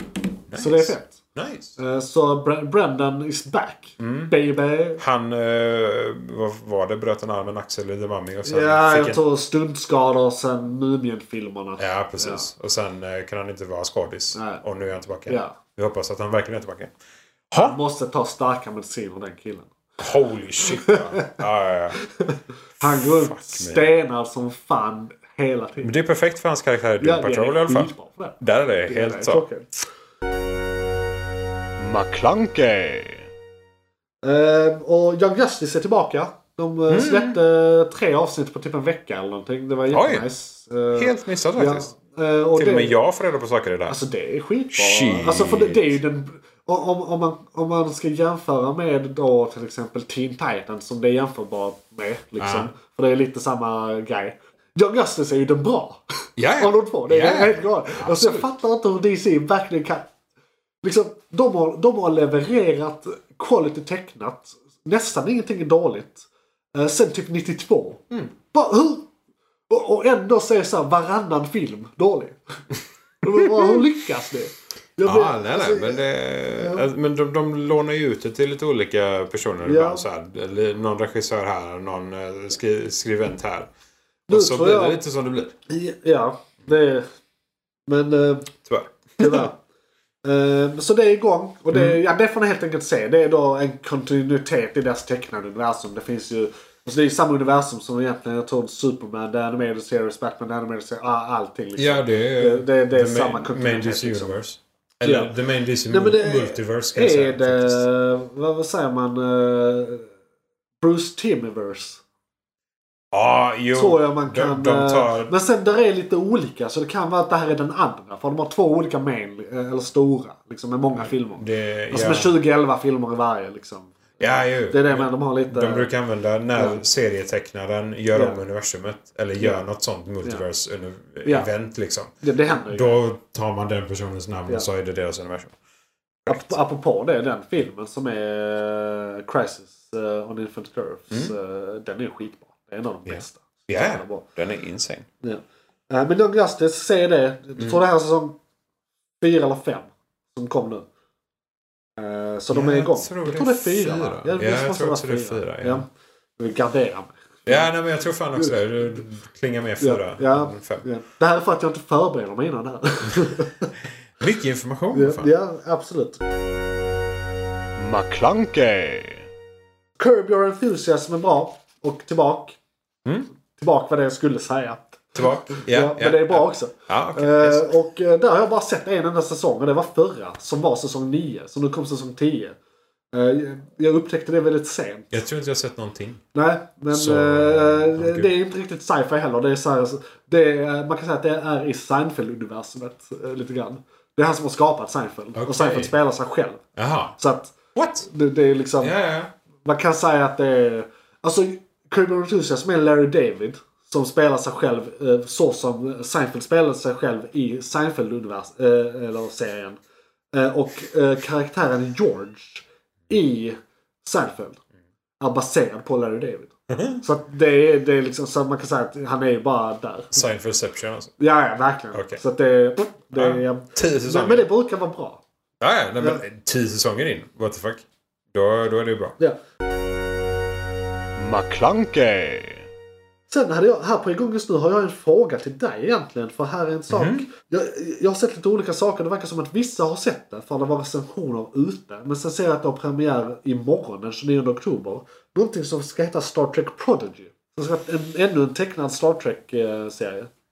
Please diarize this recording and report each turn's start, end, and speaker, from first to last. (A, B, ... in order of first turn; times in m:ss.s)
0:00.5-0:01.8 A
0:00.5-0:01.2 B
0:01.8-0:05.0 B
0:04.0-0:04.3 A
0:05.0-0:09.2 A
0:08.4-0:12.5 B
0:11.8-0:16.9 A
0:14.4-0:14.6 B
0:15.3-0:15.6 B
0:17.5-0:17.8 A
0:17.6-0:19.8 B
0:20.0-0:22.0 A
0:20.6-0:21.3 B
0:22.2-0:25.9 B
0:22.8-0:23.9 A
0:25.8-0:29.4 A
0:27.0-0:29.7 B
0:31.8-0:33.2 C
0:34.2-0:43.0 B
0:36.9-0:37.4 A
0:39.9-0:40.3 A
0:41.0-0:41.9 A
0:42.6-0:44.0 A
0:43.9-0:56.0 B
0:44.7-0:46.0 A
0:52.4-0:52.7 A
0:56.4-0:58.5 A
0:56.6-1:00.1 B
1:00.8-1:09.1 B
1:09.7-1:12.4 B
1:13.2-1:16.0 B
1:15.0-1:23.7 A
1:16.6-1:16.9 B
1:19.6-1:20.0 B
1:24.3-1:25.5 A
1:24.3-1:25.0 B
1:25.7-1:27.0 B
1:27.9-1:28.5 B
1:28.7-1:29.5 A
1:29.2-1:29.6 B
1:30.2-1:44.4 B
1:31.7-1:32.0 A
1:41.8-1:47.8 A
1:45.0-1:45.4 B
1:45.9-1:50.1 B
1:50.8-1:52.0 B
1:53.1-1:55.3 A
1:53.7-2:05.9 B
2:01.0-2:02.3 A
2:04.2-2:12.1 A
2:06.6-2:06.8 B
2:08.1-2:08.4 B
2:09.4-2:09.6 B
2:11.2-2:11.5 B
2:12.2-2:13.0 B
2:12.7-2:15.6 A
2:16.3-2:16.6 A
2:16.3-2:24.3 B
2:23.1-2:25.1 A
2:25.2-2:28.4 B
2:29.2-2:30.9 B
2:32.0-2:35.9 B
2:32.5-2:35.8 A
2:36.4-2:37.7 B
2:37.5-2:40.9 A
2:39.8-2:43.7 B
2:44.2-2:45.3 A
2:44.9-2:46.2 B
2:47.8-2:49.2 C
2:50.0-2:52.6 B
2:53.6-3:02.6 B
2:55.2-2:57.7 A
3:03.1-3:05.2 B
3:05.1-3:06.2 A
3:06.3-3:16.6 B
3:06.9-3:08.3 A
3:15.4-3:15.9 A
3:16.8-3:17.2 A
3:17.2-3:17.6 B
3:17.8-3:18.1 A
3:18.1-3:18.9 B
3:18.8-3:19.3 A
3:19.6-3:29.8 B
3:30.3-3:34.6 B
3:35.2-3:40.2 B
3:36.7-3:37.0 A
3:40.1-3:41.2 A
3:41.2-3:45.2 B
3:41.9-3:42.2 A
3:43.1-3:44.5 A
3:45.6-3:49.2 A
3:51.2-3:52.6 C
3:53.3-4:10.3 B
3:56.9-3:57.3 A